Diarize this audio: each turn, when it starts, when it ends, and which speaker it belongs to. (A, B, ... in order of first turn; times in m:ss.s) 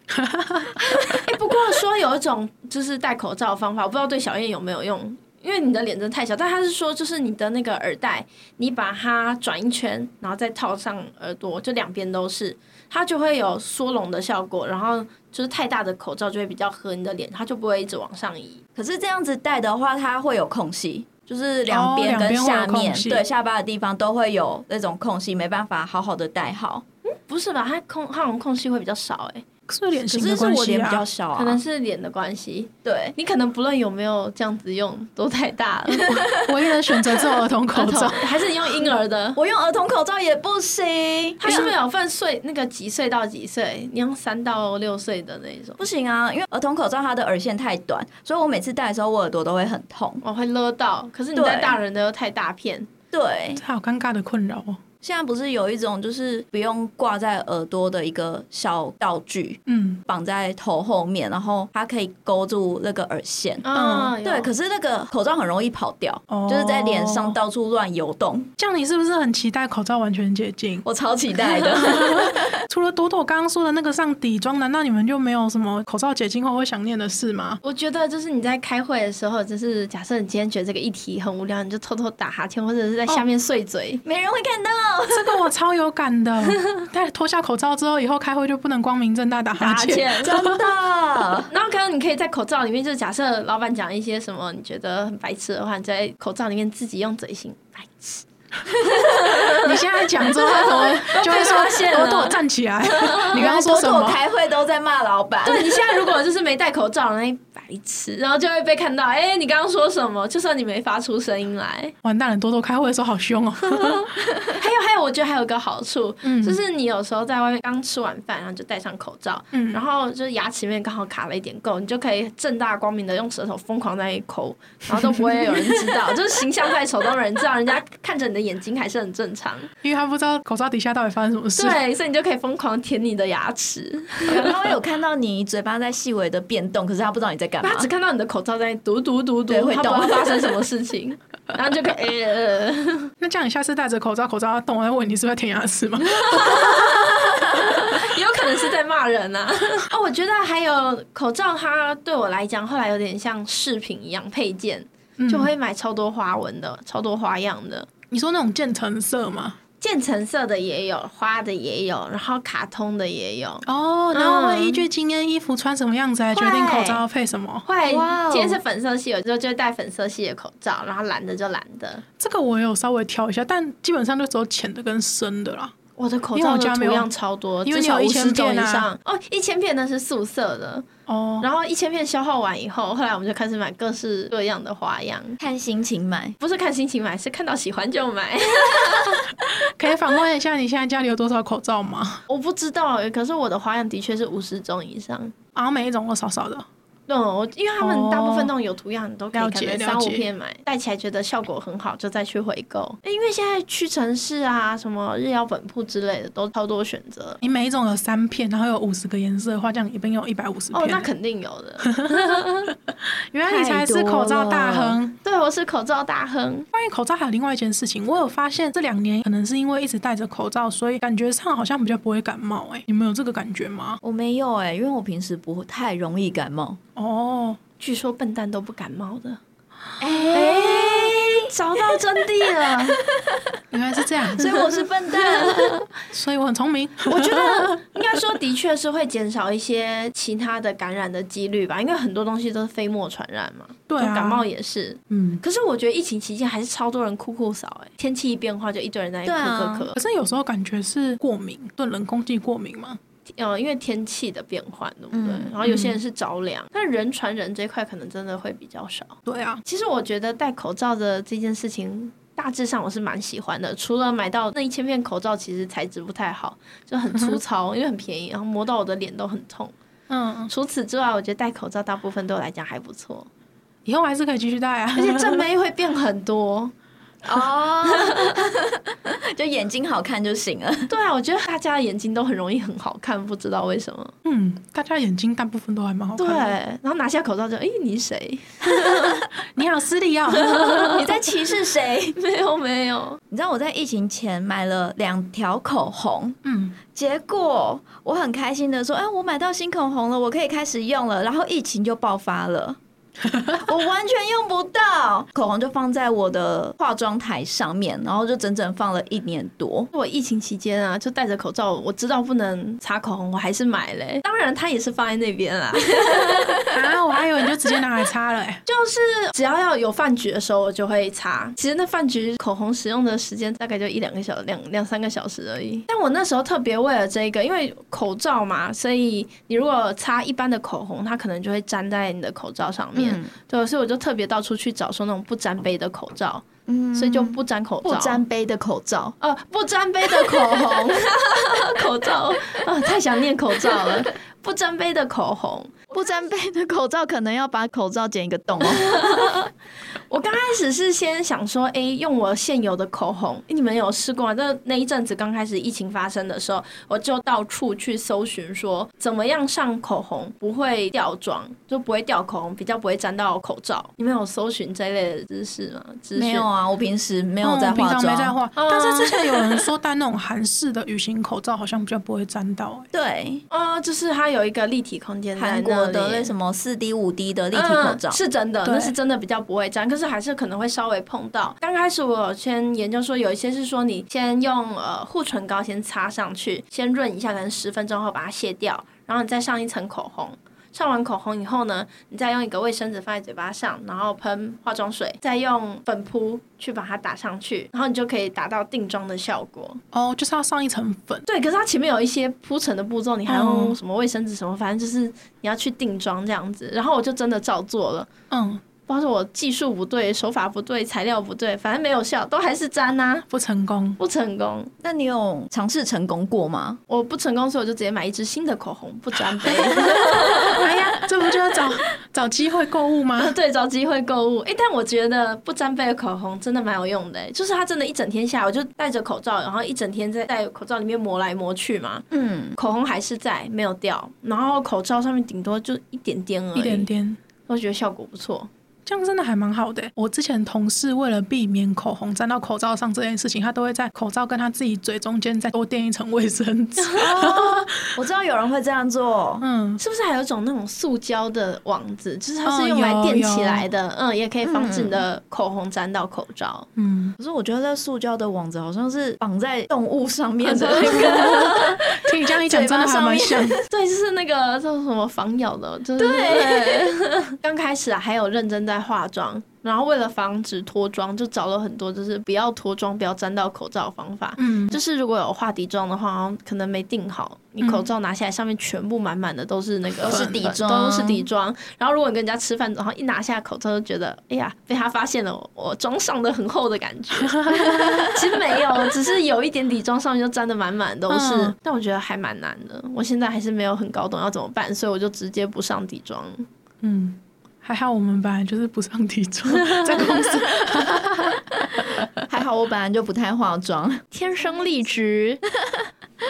0:00.1-0:01.2 A
0:00.8-0:18.6 B
0:18.8-0:26.8 C
0:21.7-0:23.2 A
0:27.0-0:29.4 B
0:29.7-0:31.0 A
0:30.1-0:31.6 C
0:31.4-0:36.2 B
0:32.8-0:33.1 C
0:35.9-0:37.3 C
0:36.4-0:38.3 A
0:37.7-0:39.4 B
0:39.4-0:41.7 C
0:41.4-0:45.8 B
0:45.8-0:50.2 C
0:50.2-0:52.9 B
0:51.3-0:51.8 C
0:53.1-0:53.6 C
0:53.6-0:54.8 A
0:55.0-1:03.6 C
0:59.7-1:00.0 A
1:03.6-1:04.5 B
1:03.7-1:04.1 A
1:04.2-1:08.5 C
1:06.3-1:07.4 A
1:08.6-1:10.8 A
1:10.8-1:12.6 C
1:11.7-1:17.6 A
1:17.6-1:24.0 B
1:24.0-1:25.5 C
1:25.1-1:30.6 A
1:29.6-1:30.4 B
1:30.2-1:31.5 C
1:31.5-1:43.4 B
1:38.8-1:39.1 C
1:39.6-1:44.2 A
1:43.3-1:46.1 C
1:45.4-1:51.9 B
1:52.0-1:54.1 A
1:53.7-1:54.0 B
1:54.2-1:54.6 C
1:54.6-2:09.7 B
1:56.2-1:56.6 A
1:59.5-1:59.8 A
2:09.8-2:11.8 A
2:11.6-2:14.7 B
2:14.2-2:17.9 C
2:17.6-2:23.1 B
2:19.5-2:20.5 C
2:23.2-2:26.8 A
2:26.0-2:37.9 B
2:26.4-2:27.2 C
2:35.2-2:35.5 A
2:38.1-2:39.6 A
2:39.8-2:44.8 B
2:43.6-2:47.6 A
2:46.3-2:47.0 B
2:47.6-2:52.0 B
2:47.9-2:48.6 C
2:52.2-2:55.7 A
2:56.0-3:00.8 B
2:56.3-2:57.1 A
2:57.6-2:58.9 A
3:01.1-3:01.5 A
3:01.4-3:05.4 B
3:05.4-3:06.4 C
3:06.4-3:09.4 B
3:09.4-3:12.2 A
3:12.3-3:15.3 B
3:15.5-3:16.6 A
3:17.1-3:27.4 B
3:17.8-3:18.5 A
3:19.3-3:20.2 A
3:27.4-3:31.1 A
3:30.7-3:32.7 B
3:31.8-3:32.4 A
3:33.2-3:35.2 A
3:33.4-3:35.0 C
3:35.2-3:36.7 B
3:36.7-3:44.0 A
3:44.0-3:46.8 C
3:47.0-3:47.6 A
3:47.8-3:49.4 B
3:50.0-3:51.5 C
3:50.3-3:53.0 B
3:53.0-3:53.5 C
3:53.7-3:54.6 A
3:54.3-3:55.8 C
3:55.1-3:55.9 B
3:56.0-3:57.8 A
3:57.0-4:10.0 B
4:03.9-4:04.4 A
4:05.1-4:05.4 A
4:09.2-4:09.9 C
4:09.9-4:13.0 A
4:13.4-4:29.7 B
4:15.1-4:15.5 C
4:15.6-4:16.0 A
4:19.2-4:19.6 A
4:27.1-4:27.4 A
4:30.1-4:30.5 A
4:30.5-4:33.3 B
4:33.8-4:35.4 A
4:34.9-4:36.7 B
4:37.2-4:40.9 C
4:37.3-4:38.5 B
4:40.9-4:44.1 B
4:44.2-4:46.5 A
4:46.2-4:49.2 B
4:48.9-4:51.0 A
4:50.3-4:51.3 B
4:50.9-4:52.2 C
4:52.1-4:53.2 B
4:53.3-4:56.4 C
4:56.4-4:56.8 A
4:56.9-5:02.8 C
5:03.6-5:09.9 C
5:09.9-5:16.6 B
5:16.7-5:18.6 A
5:18.6-5:38.2 B
5:33.0-5:33.3 C
5:36.7-5:39.1 C
5:39.2-5:45.9 B
5:40.1-5:41.0 C
5:45.9-5:49.3 C
5:48.6-5:49.5 B
5:50.1-6:06.5 B
6:06.1-6:08.4 C
6:07.4-6:12.9 A
6:08.6-6:09.7 B
6:12.9-6:13.4 C
6:13.5-6:16.3 B
6:15.4-6:18.2 C
6:17.5-6:39.8 B
6:18.6-6:18.9 A
6:39.9-6:41.2 A
6:41.2-6:48.1 B
6:43.3-6:43.8 A
6:48.3-6:48.6 A
6:48.9-6:53.3 B
6:53.3-6:54.0 A
6:54.0-6:54.7 B
6:54.8-6:56.8 C
6:56.9-7:00.7 B
7:00.4-7:03.3 A
7:03.2-7:12.0 B
7:12.1-7:12.6 C
7:12.6-7:16.9 B
7:16.5-7:17.2 A
7:17.5-7:18.5 B
7:18.8-7:27.7 A
7:26.8-7:27.3 B
7:27.0-7:29.4 C
7:29.4-7:29.8 A
7:29.8-7:36.7 B
7:32.4-7:33.6 A
7:34.4-7:35.0 C
7:36.8-7:37.1 A
7:37.2-7:43.6 C
7:40.4-7:41.6 B
7:40.8-7:43.6 A
7:43.7-8:16.4 B
7:46.0-7:46.9 C
7:54.4-7:54.8 A
7:57.6-7:57.8 A
8:00.0-8:01.2 C
8:00.1-8:00.4 A
8:07.2-8:08.1 A
8:11.1-8:11.5 A
8:16.8-8:21.4 A
8:22.2-8:24.0 C
8:24.1-8:25.4 B